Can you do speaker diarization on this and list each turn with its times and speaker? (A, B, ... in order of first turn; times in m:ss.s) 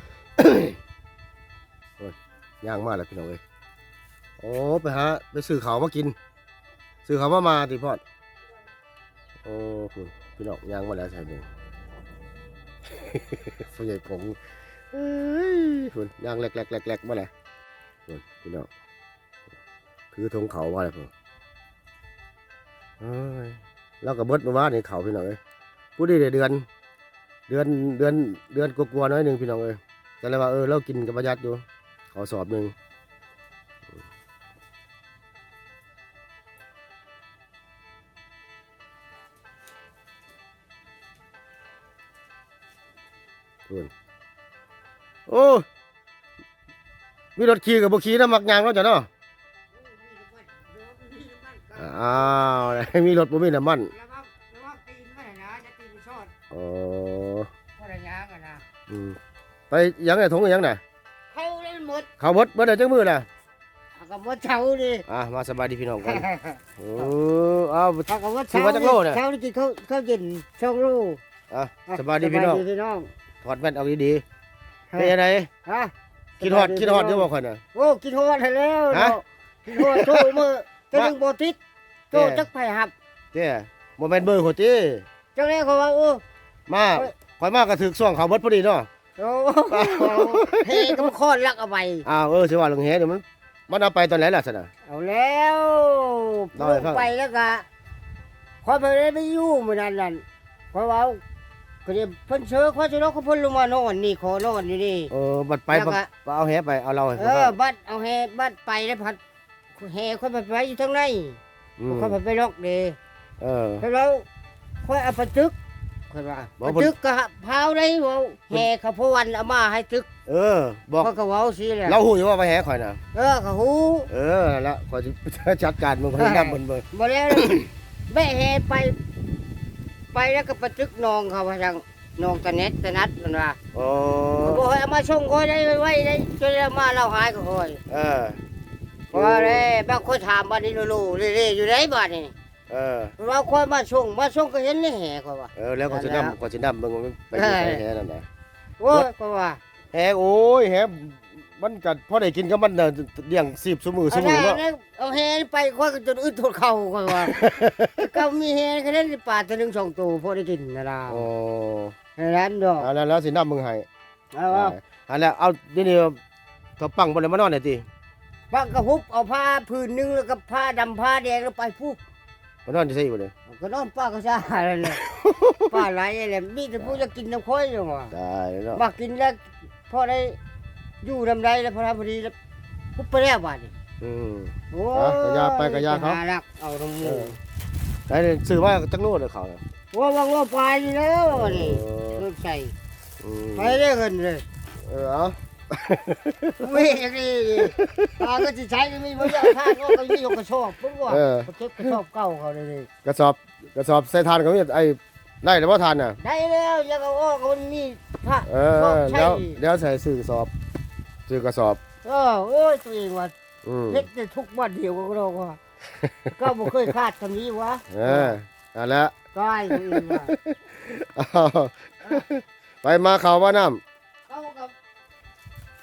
0:00.4-0:00.8 A
0:02.0-0:03.4 A
0:04.4-0:06.2 A
0:07.1-0:08.0 A
0:09.4-0:11.5 A
0:12.9-0:14.4 A
0:14.9-0:17.3 A
0:18.1-0:18.7 A
0:20.1-0:21.1 A
0:23.0-0:25.4 A
0:26.0-0:26.7 A
0:27.5-0:32.8 A
0:45.3-0:45.6 A
0:47.4-0:49.1 A
0:49.7-0:52.6 B
0:51.8-0:53.9 A
0:53.9-0:56.3 B
0:56.5-0:57.5 A
0:57.8-0:58.6 B
0:58.9-0:59.2 A
0:59.7-1:00.8 A
1:01.3-1:02.1 B
1:02.2-1:03.3 A
1:04.0-1:05.0 B
1:05.1-1:06.3 A
1:06.0-1:07.1 B
1:06.8-1:09.2 A
1:08.1-1:11.2 B
1:11.5-1:12.6 A
1:11.9-1:13.1 B
1:13.4-1:14.2 A
1:15.0-1:15.5 A
1:15.6-1:21.6 B
1:16.4-1:17.6 A
1:18.9-1:19.2 A
1:19.8-1:21.1 A
1:22.1-1:22.9 B
1:22.1-1:22.5 A
1:23.3-1:25.1 A
1:25.4-1:26.2 B
1:26.7-1:28.9 A
1:29.2-1:32.0 B
1:29.7-1:31.1 A
1:32.0-1:34.7 A
1:34.9-1:37.7 B
1:36.6-1:37.1 A
1:38.6-1:41.2 B
1:41.8-1:45.1 B
1:45.1-1:47.6 A
1:45.7-1:46.1 B
1:47.2-1:49.2 B
1:49.8-1:53.0 B
1:51.8-1:52.2 A
1:53.4-1:53.9 A
1:53.8-1:54.3 B
1:54.8-1:55.6 B
1:56.1-2:00.1 B
1:56.6-1:56.9 A
2:00.3-2:01.1 A
2:01.0-2:02.0 B
2:01.9-2:03.0 A
2:03.1-2:04.1 B
2:04.1-2:07.7 A
2:06.2-2:07.5 B
2:08.1-2:09.0 B
2:10.1-2:13.6 B
2:13.7-2:14.6 A
2:14.4-2:17.8 B
2:17.9-2:18.4 A
2:19.1-2:19.7 A
2:19.1-2:22.3 B
2:22.7-2:23.2 A
2:23.2-2:26.4 B
2:25.6-2:28.3 A
2:27.3-2:27.8 B
2:28.8-2:29.6 B
2:29.9-2:34.6 A
2:34.1-2:41.3 B
2:37.2-2:38.0 A
2:41.1-2:42.0 A
2:42.2-2:42.9 B
2:42.8-2:43.9 A
2:44.3-2:44.8 B
2:44.5-2:46.2 A
2:46.8-2:47.9 A
2:48.5-2:52.0 B
2:52.7-2:53.3 A
2:53.5-2:55.0 B
2:55.0-2:55.8 A
2:55.6-2:58.1 B
2:58.1-2:58.8 A
2:58.7-3:00.4 B
3:01.0-3:02.4 B
3:03.0-3:03.7 B
3:04.0-3:06.2 A
3:04.7-3:07.4 B
3:07.0-3:07.4 A
3:08.1-3:09.6 A
3:09.9-3:12.7 B
3:11.3-3:12.2 A
3:13.2-3:13.8 A
3:13.6-3:14.4 B
3:14.8-3:17.0 A
3:16.6-3:22.9 B
3:17.7-3:18.3 A
3:19.2-3:20.2 A
3:21.1-3:22.0 A
3:23.0-3:26.2 A
3:26.2-3:29.6 B
3:28.5-3:30.5 A
3:31.3-3:31.8 A
3:32.0-3:33.3 B
3:33.6-3:34.1 A
3:33.9-3:35.6 B
3:36.0-3:36.3 A
3:36.3-3:38.4 B
3:37.9-3:39.2 A
3:39.3-3:40.3 B
3:39.8-3:43.8 A
3:44.3-3:44.7 B